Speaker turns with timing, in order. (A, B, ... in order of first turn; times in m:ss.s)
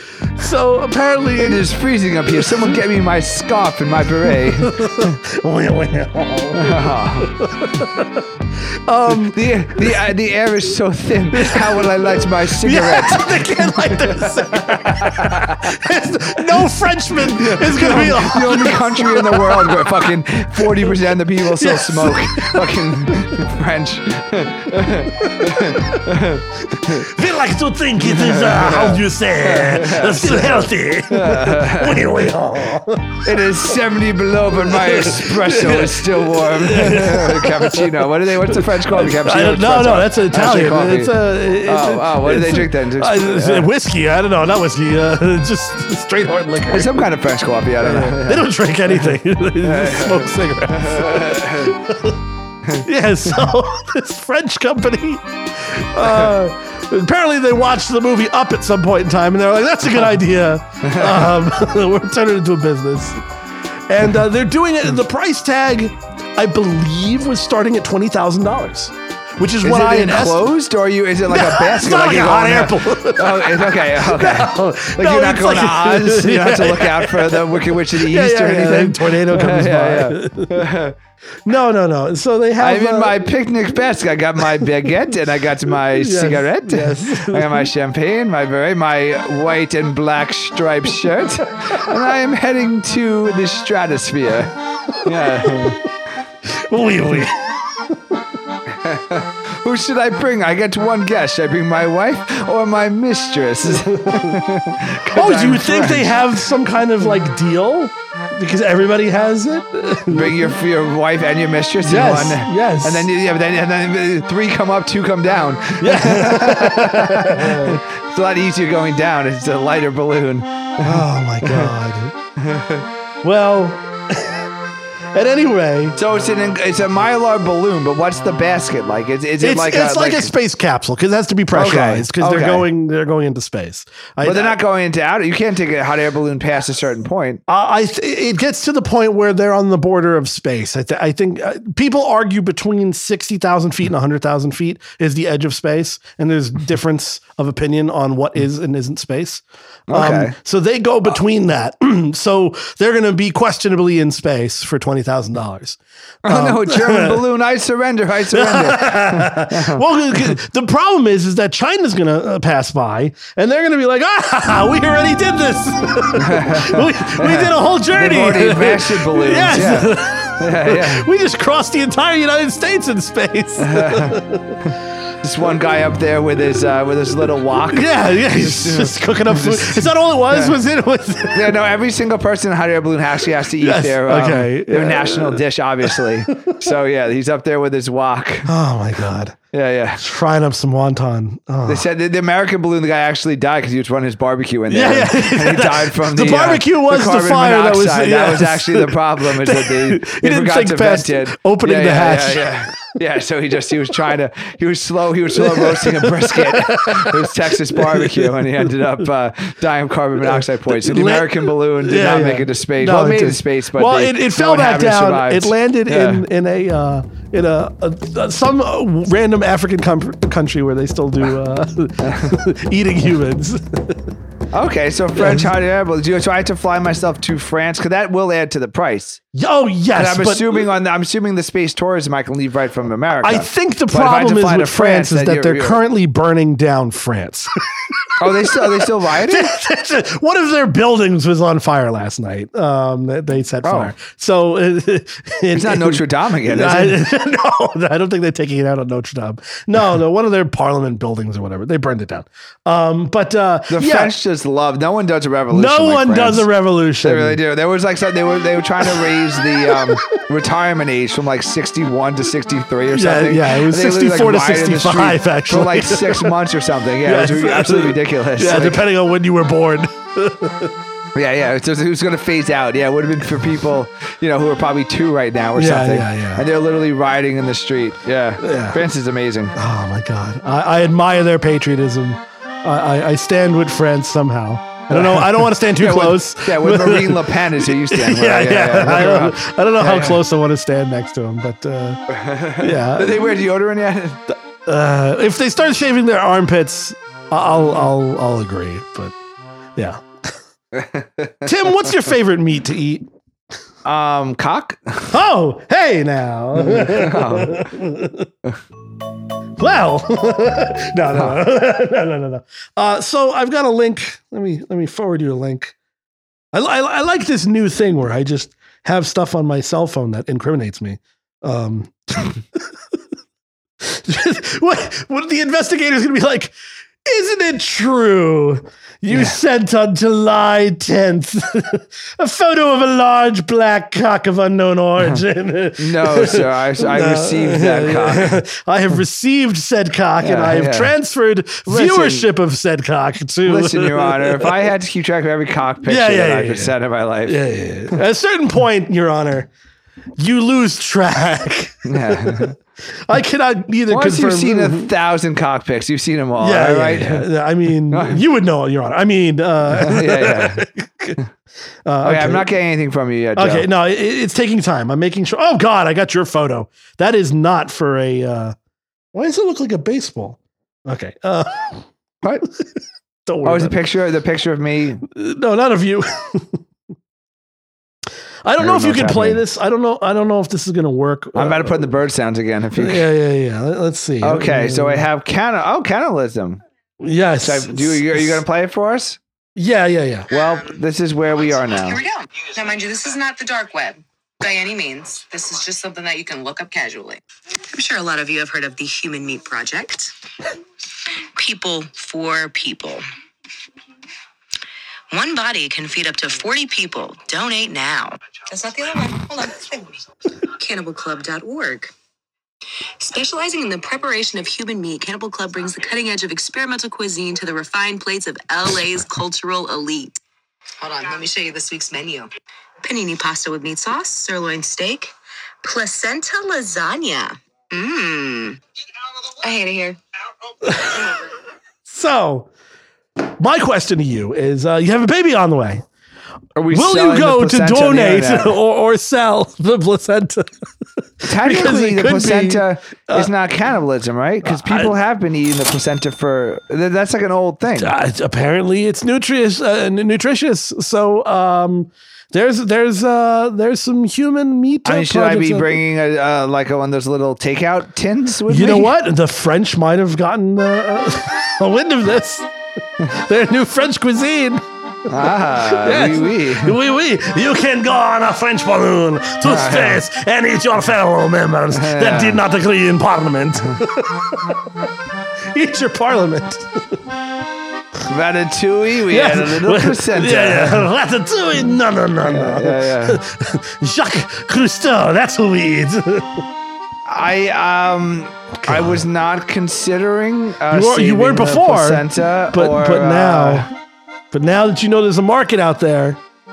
0:00.3-0:01.6 A
0:01.4-0:05.1 B
0:02.3-0:02.8 A
0:04.2-0:10.0 A
0:06.5-0:07.3 B
0:09.1-0:15.8 B
0:11.3-0:23.4 A
0:16.4-0:27.1 B
0:25.1-0:33.8 A
0:28.0-0:32.1 B
0:33.2-0:43.7 B
0:34.5-0:47.1 A
0:46.7-0:48.5 B
0:47.8-0:52.2 A
0:49.6-0:51.8 B
0:52.7-1:03.2 A
1:00.8-1:01.3 B
1:03.9-1:10.5 A
1:09.6-1:21.0 B
1:11.3-1:20.7 A
1:21.4-1:23.3 A
1:22.6-1:35.8 B
1:25.8-1:27.7 A
1:35.4-1:35.8 A
1:36.4-1:38.2 A
1:38.7-1:46.2 B
1:43.6-1:44.4 A
1:45.0-1:50.5 A
1:50.1-2:01.7 B
1:51.8-1:53.1 A
1:55.8-1:57.8 A
2:00.8-2:02.1 A
2:02.4-2:02.8 B
2:03.2-2:04.5 A
2:05.1-2:06.0 A
2:06.0-2:10.3 B
2:09.4-2:14.6 A
2:11.5-2:12.7 B
2:14.2-2:17.4 B
2:17.5-2:37.2 A
2:29.9-2:30.3 B
2:36.2-2:40.4 B
2:38.3-2:54.6 A
2:46.2-2:51.0 B
2:53.6-3:00.6 B
2:57.7-3:01.6 A
3:01.3-3:08.5 B
3:03.4-3:06.6 A
3:08.4-3:09.4 A
3:09.5-3:10.0 B
3:10.0-3:11.9 A
3:11.6-3:36.2 B
3:14.7-3:22.6 A
3:25.3-3:28.7 A
3:30.2-3:44.1 A
3:42.0-3:42.3 B
3:44.5-3:49.2 B
3:45.1-3:45.5 A
3:49.3-3:50.7 A
3:49.9-3:55.8 B
3:53.2-4:14.1 A
3:58.2-3:59.5 B
4:03.6-4:03.9 B
4:05.5-4:07.0 B
4:13.7-4:16.5 B
4:15.5-4:17.4 A
4:17.0-4:28.8 B
4:18.8-4:20.2 A
4:22.9-4:26.4 A
4:27.0-4:30.7 A
4:31.1-4:39.5 B
4:35.6-4:36.4 A
4:38.4-4:38.8 A
4:39.5-4:52.0 A
4:44.9-4:50.2 B
4:52.1-4:54.2 B
4:52.6-4:53.3 A
4:54.6-4:59.1 A
4:59.8-5:00.0 A
5:00.7-5:01.4 B
5:01.4-5:03.1 A
5:03.8-5:05.1 B
5:05.1-5:08.3 A
5:06.6-5:07.7 B
5:09.6-5:15.8 A
5:11.1-5:11.4 B
5:16.5-5:22.7 A
5:23.8-5:26.5 A
5:27.0-5:44.7 A
5:29.1-5:29.4 B
5:35.8-5:38.4 B
5:40.2-5:40.9 B
5:41.6-5:42.3 B
5:43.4-5:47.4 B
5:45.8-5:46.7 A
5:47.2-5:49.5 A
5:50.2-5:52.5 A
5:51.8-5:52.5 B
5:53.0-5:54.9 A
5:53.9-5:58.2 B
5:56.4-6:01.2 A
5:59.7-6:00.6 B
6:01.8-6:02.5 A
6:02.0-6:03.7 B
6:03.4-6:08.6 A
6:09.1-6:11.8 A
6:13.2-6:13.8 A
6:13.4-6:15.0 B
6:15.0-6:16.6 A
6:18.4-6:21.9 A
6:18.6-6:19.4 B
6:21.3-6:23.0 B
6:22.7-6:25.1 A
6:24.2-6:26.6 B
6:27.0-6:28.4 A
6:27.4-6:29.2 B
6:29.6-6:30.3 A
6:30.3-6:32.0 B
6:31.8-6:37.2 C
6:37.7-6:40.1 C
6:41.3-6:43.0 C
6:45.1-6:51.9 C
6:53.0-7:00.2 C
7:00.8-7:02.3 C
7:02.8-7:08.6 C
7:09.2-7:10.0 C
7:10.6-7:11.2 A
7:11.8-7:12.5 A
7:13.2-7:15.8 A
7:16.6-7:18.6 B
7:16.7-7:20.6 A
7:21.2-7:23.3 A
7:21.3-7:27.9 B
7:24.4-7:24.9 A
7:27.8-7:35.8 A
7:34.8-7:38.9 B
7:38.5-7:54.9 A
7:45.1-7:46.8 B
7:49.4-7:50.0 B
7:51.7-7:52.4 B
7:55.5-7:57.0 A
7:58.0-8:00.9 B
7:59.1-8:06.4 A
8:02.2-8:03.2 B
8:07.0-8:13.7 B
8:08.6-8:09.0 A
8:10.7-8:13.7 A
8:14.3-8:16.2 A